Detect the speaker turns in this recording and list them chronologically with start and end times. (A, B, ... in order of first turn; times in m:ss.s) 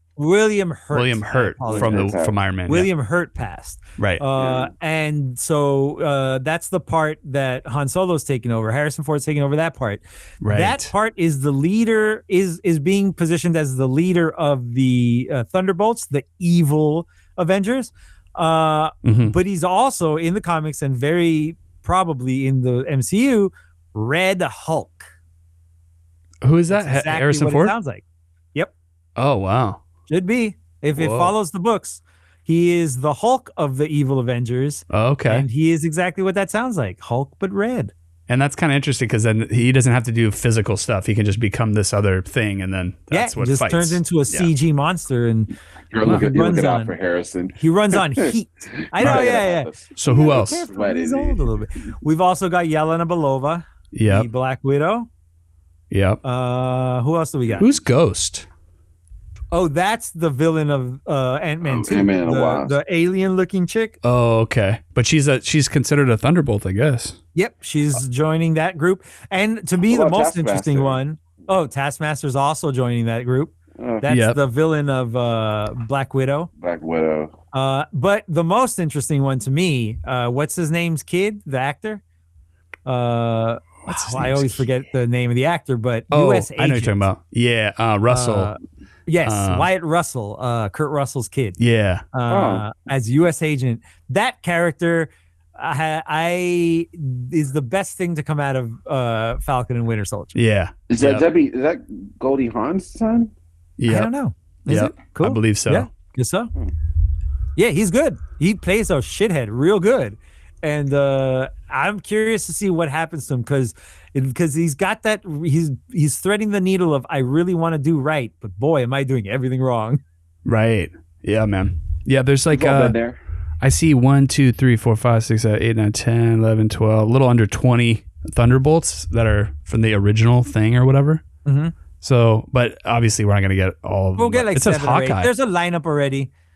0:00.2-0:02.1 A
0:00.9-0:02.9 B
0:01.7-0:02.4 C
0:02.7-0:25.1 A
0:04.4-0:04.7 C
0:10.4-0:10.9 B
0:19.0-0:19.3 B
0:26.4-0:27.7 B
0:26.7-0:28.0 A
0:29.2-0:29.8 B
0:30.1-0:37.9 A
0:31.0-0:31.3 B
0:34.9-0:35.4 B
0:38.3-0:44.5 B
0:43.1-0:46.9 A
0:45.9-0:48.3 C
0:47.6-0:55.1 A
0:48.9-0:51.6 C
0:49.0-0:49.3 B
0:50.0-0:50.6 B
0:53.9-0:54.3 B
0:55.9-0:56.2 B
0:56.2-0:57.6 A
0:57.6-0:58.5 B
0:59.5-1:04.0 A
1:01.6-1:02.8 C
1:04.0-1:07.2 B
1:07.3-1:16.5 A
1:09.8-1:11.0 C
1:13.8-1:14.1 C
1:14.1-1:14.4 B
1:16.6-1:17.3 C
1:17.5-1:22.0 A
1:22.8-1:27.0 A
1:23.9-1:24.7 B
1:26.1-1:28.5 B
1:28.1-1:31.6 A
1:29.2-1:29.7 B
1:31.6-1:32.0 B
1:32.1-1:40.3 A
1:32.3-1:32.6 C
1:40.3-1:41.2 B
1:40.9-1:43.3 C
1:43.8-1:44.1 B
1:43.9-1:46.5 A
1:44.7-1:45.9 B
1:47.6-2:00.0 A
2:00.4-2:03.0 B
2:02.5-2:03.2 C
2:03.6-2:11.2 B
2:11.4-2:11.7 A
2:12.0-2:15.3 B
2:14.2-2:16.3 A